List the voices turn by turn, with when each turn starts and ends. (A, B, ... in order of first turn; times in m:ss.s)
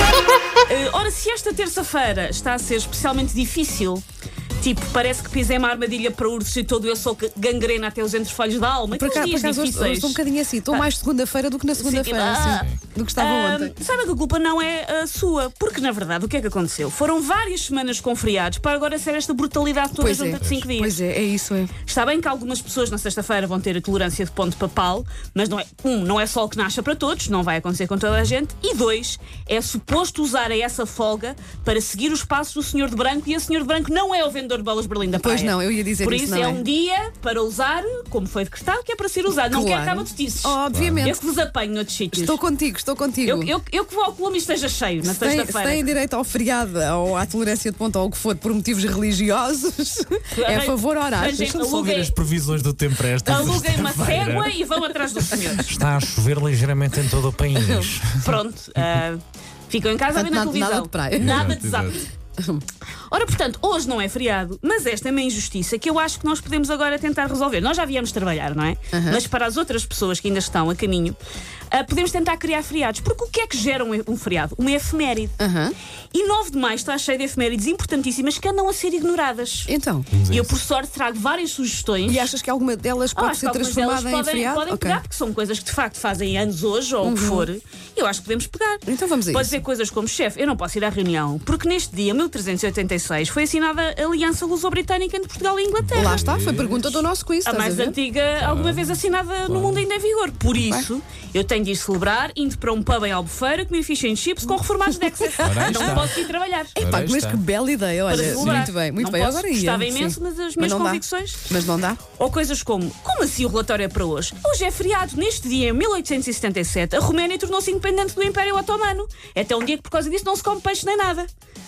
0:00.7-0:04.0 A
0:04.6-0:10.9 A
0:08.9-0:13.7 B
0:11.8-0:21.0 A
0:12.3-0:12.8 C
0:20.0-0:21.7 B
0:20.4-0:20.6 C
0:21.8-0:42.4 A
0:35.1-0:36.6 B
0:39.3-0:41.2 B
0:40.7-0:41.1 C
0:42.1-0:43.5 B
0:43.2-0:45.9 A
0:45.0-0:51.5 B
0:50.3-0:52.2 A
0:51.3-0:54.6 C
0:53.2-0:55.8 A
0:55.6-0:58.8 C
0:57.5-0:57.9 B
0:58.2-1:02.0 A
1:00.1-1:01.6 B
1:01.2-1:02.0 C
1:02.4-1:02.6 B
1:03.1-1:11.2 A
1:08.9-1:09.2 B
1:11.7-1:15.4 A
1:15.4-1:15.8 B
1:16.1-1:19.7 A
1:19.7-1:20.1 B
1:20.1-1:20.6 C
1:20.3-1:22.3 A
1:22.1-1:25.0 B
1:23.2-1:36.2 A
1:27.0-1:27.5 B
1:28.9-1:29.6 B
1:35.8-1:36.9 C
1:35.9-1:38.0 B
1:37.5-1:46.8 A
1:38.4-1:39.9 C
1:40.6-1:40.9 B
1:44.9-1:46.1 B
1:45.4-1:46.2 C
1:46.8-1:52.0 B
1:46.8-1:47.4 C
1:48.1-1:51.5 A
1:48.2-1:48.7 C
1:52.2-2:01.3 A